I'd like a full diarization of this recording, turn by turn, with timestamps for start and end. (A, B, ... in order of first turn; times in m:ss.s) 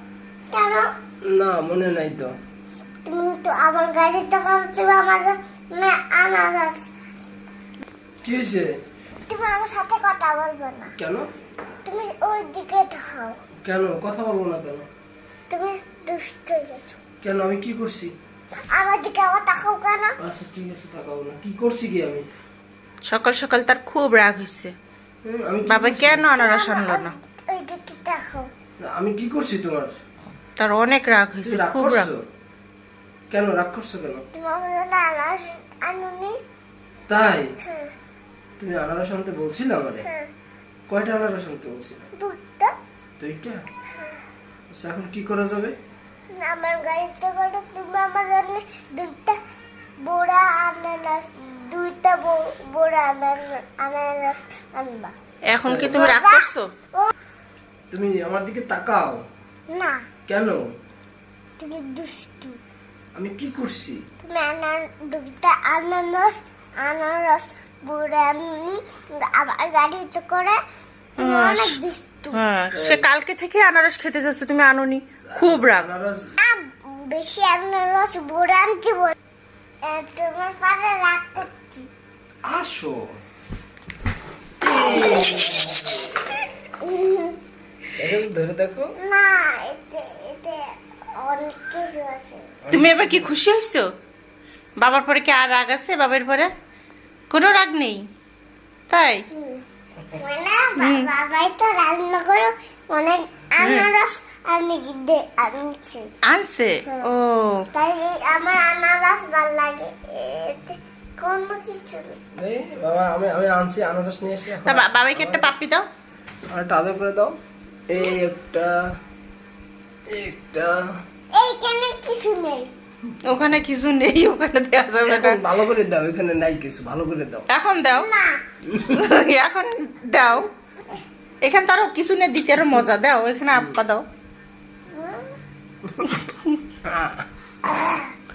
0:00.5-0:00.9 A
0:01.3-0:02.3 B
0:03.0-0:06.9 A
0:08.2-0:08.8 B
0:09.3-0:10.9 A
0:11.0-0:11.3 B
0:11.8-0:13.4 A
0:13.6-0:14.9 B
0:15.5-0:17.0 A
0:17.2-0:18.1 B
0:18.7-0:20.2 A
0:20.2-0:22.3 B
0:23.0-0:24.8 C
0:25.2-0:26.3 B
0:25.7-0:27.2 C
0:26.4-0:28.5 A
0:28.8-0:29.9 B
0:30.6-0:32.1 C
0:31.4-0:32.2 B
0:33.3-0:34.2 B
0:34.3-0:36.4 A
0:37.1-0:37.5 B
0:37.6-0:37.9 A
0:38.6-0:40.1 B
0:40.0-0:40.3 A
0:40.9-0:42.1 B
0:42.2-0:42.7 A
0:43.2-0:43.6 B
0:43.9-0:44.2 A
0:44.7-0:45.8 B
0:46.3-0:49.4 A
0:50.0-0:55.2 A
0:55.5-0:56.7 C
0:55.7-0:56.1 B
0:55.7-0:57.1 A
0:57.9-0:59.2 B
0:59.7-1:00.0 A
1:00.3-1:00.7 B
1:01.6-1:02.6 A
1:03.2-1:04.0 B
1:04.2-1:10.6 A
1:11.2-1:11.8 C
1:11.2-1:12.4 A
1:12.3-1:15.9 C
1:12.7-1:13.1 B
1:15.3-1:16.3 B
1:16.4-1:19.2 A
1:19.8-1:21.9 A
1:22.4-1:23.0 B
1:24.6-1:25.4 A
1:24.6-1:25.9 B
1:26.7-1:27.4 A
1:28.0-1:28.9 B
1:29.0-1:32.5 A
1:32.6-1:33.3 B
1:32.7-1:33.9 C
1:34.8-1:36.5 C
1:37.3-1:38.0 C
1:38.9-1:39.2 C
1:39.3-1:39.6 A
1:40.1-1:46.1 A
1:40.8-1:41.1 C
1:43.6-1:43.9 C
1:46.2-1:47.7 C
1:46.8-1:47.1 A
1:47.7-1:52.2 A
1:52.4-1:55.5 B
1:54.6-1:55.9 C
1:56.5-1:57.4 B
1:57.9-1:58.9 B
2:00.1-2:00.9 B
2:01.3-2:02.7 A
2:03.2-2:05.4 C
2:05.1-2:07.5 B
2:07.5-2:08.1 C
2:07.9-2:08.4 A
2:08.7-2:09.0 B
2:08.9-2:10.5 C
2:11.4-2:14.0 C
2:13.5-2:13.8 B
2:14.9-2:15.3 A
2:16.8-2:17.3 B